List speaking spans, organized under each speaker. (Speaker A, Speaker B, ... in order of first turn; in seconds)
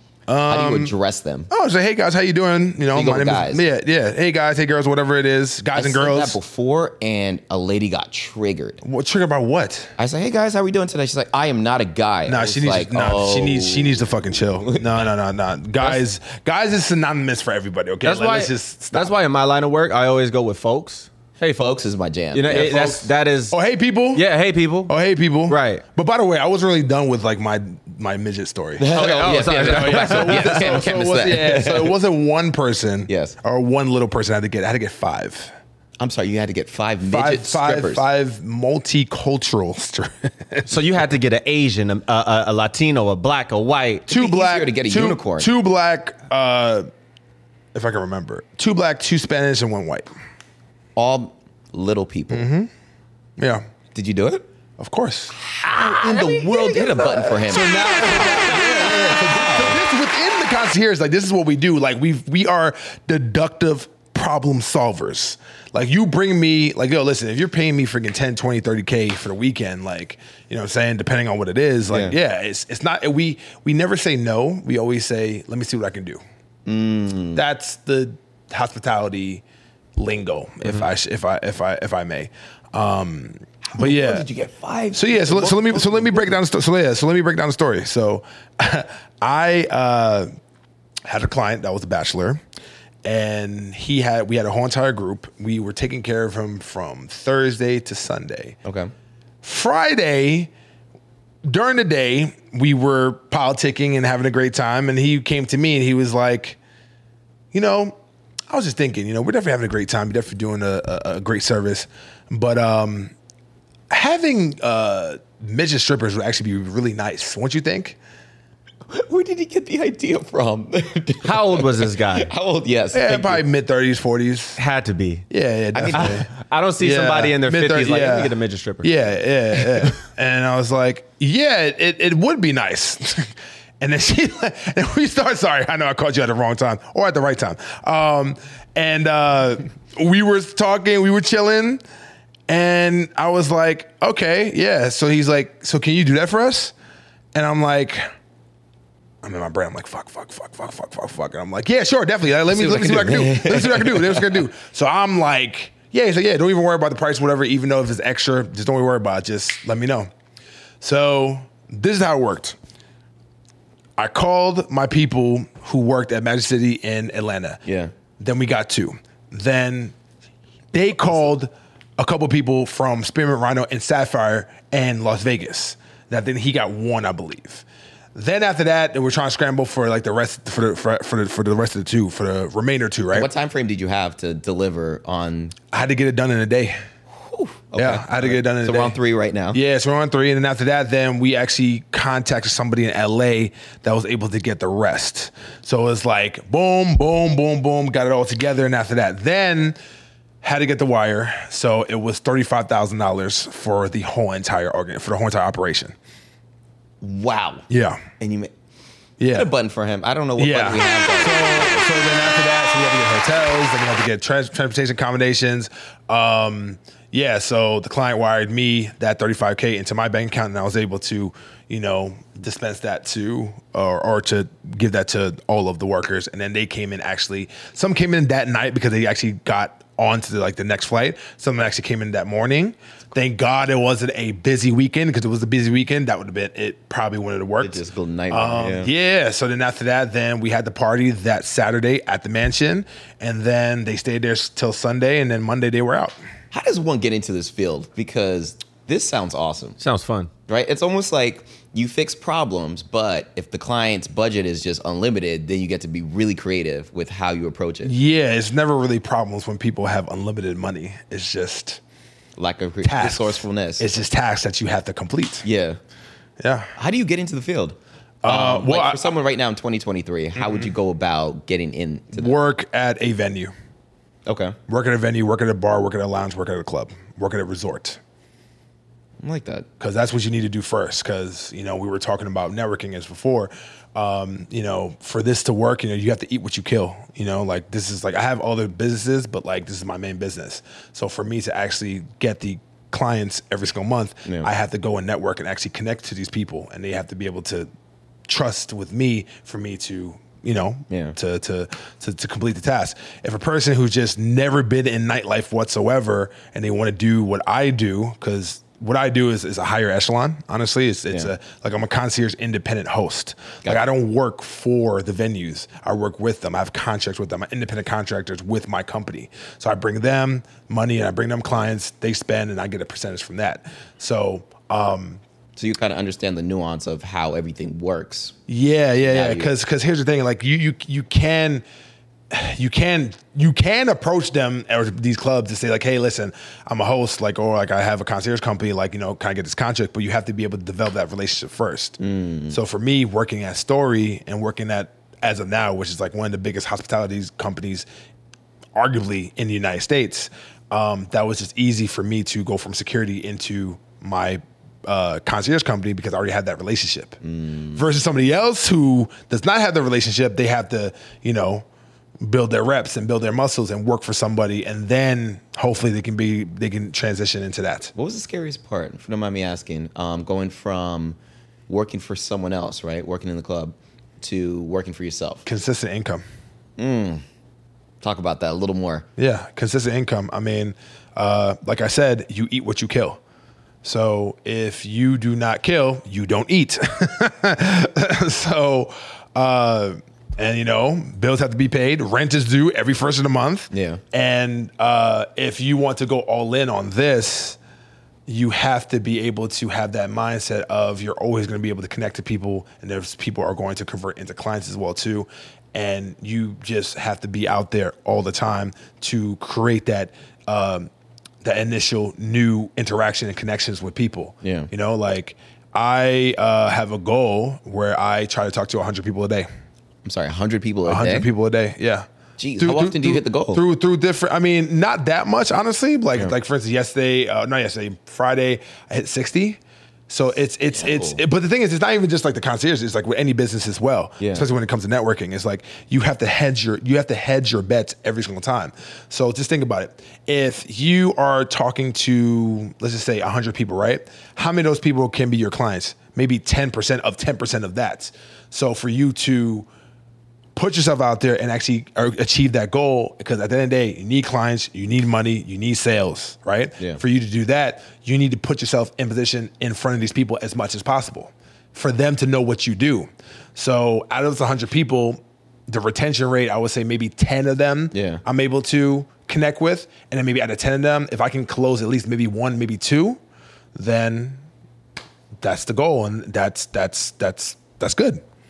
Speaker A: 0.3-0.9, 1.5-6.4, 8.8-9.9, 12.3-19.1, 22.5-24.2, 24.9-35.5, 37.1-40.7, 44.1-46.9, 47.7-50.1, 52.3-52.7, 53.4-53.6, 54.8-55.4, 56.0-76.2, 77.3-79.4, 80.0-84.2, 84.9-90.3, 91.1-92.4, 93.0-98.6, 99.4-100.5, 101.4-106.6, 107.5-108.0, 108.5-113.1, 113.9-118.0, 122.9-124.6, 125.3-126.3, 126.8-141.8, 142.5-146.7, 147.3-148.1, 149.2-160.1, 160.8-162.6, 164.0-167.6, 168.2-169.9, 170.7-183.3, 185.7-186.8, 187.8-188.9, 189.5-199.8, 200.4-205.9, 207.7-208.0, 209.2-209.5, 210.4-246.2, 257.8-261.8, 262.8-265.4, 266.4-266.7, 268.2-269.1, 270.4-270.7, 272.1-273.5, 274.7-278.0, 279.8-297.7, 298.3-325.2, 328.5-331.6, 332.3-342.0, 342.5-347.9, 348.7-357.2, 357.7-361.6, 362.2-367.9, 375.4-376.2, 379.2-383.2, 383.8-397.6, 398.3-410.9, 411.4-419.5, 420.9-422.1, 422.6-449.7, 450.5-473.2, 473.7-474.4, 475.4-478.2
Speaker B: 0.5-1.5, 2.9-3.6, 5.7-8.8, 10.0-15.1, 21.4-22.9, 28.8-32.0, 33.1-33.4, 36.0-38.0, 44.1-45.5, 51.0-52.5, 53.9-54.4, 55.5-59.8, 71.9-72.2, 76.7-77.4, 83.7-86.4, 98.6-98.9, 118.9-123.4, 125.7-126.2, 152.5-154.4, 167.6-167.9, 183.1-185.6, 187.2-189.6, 207.0-207.7, 208.2-208.5, 209.3-211.8, 237.6-238.9, 246.5-249.8, 250.5-257.9, 262.4-263.9, 265.4-265.8, 266.8-272.3, 274.2-274.6, 279.2-279.7, 300.9-301.1, 325.6-328.4, 329.1-329.5, 342.0-342.6, 357.2-357.8, 367.9-371.2, 371.7-375.4, 376.8-377.2, 378.0-379.1, 393.7-394.0, 414.4-414.7, 420.0-421.3, 422.4-423.6, 430.7-431.2, 434.2-434.4, 467.9-468.2
Speaker C: 18.0-21.6, 22.3-23.6, 24.1-24.9, 25.5-25.8, 28.9-30.9, 40.6-44.1, 121.2-122.3, 124.6-125.2, 125.9-129.1, 249.8-250.3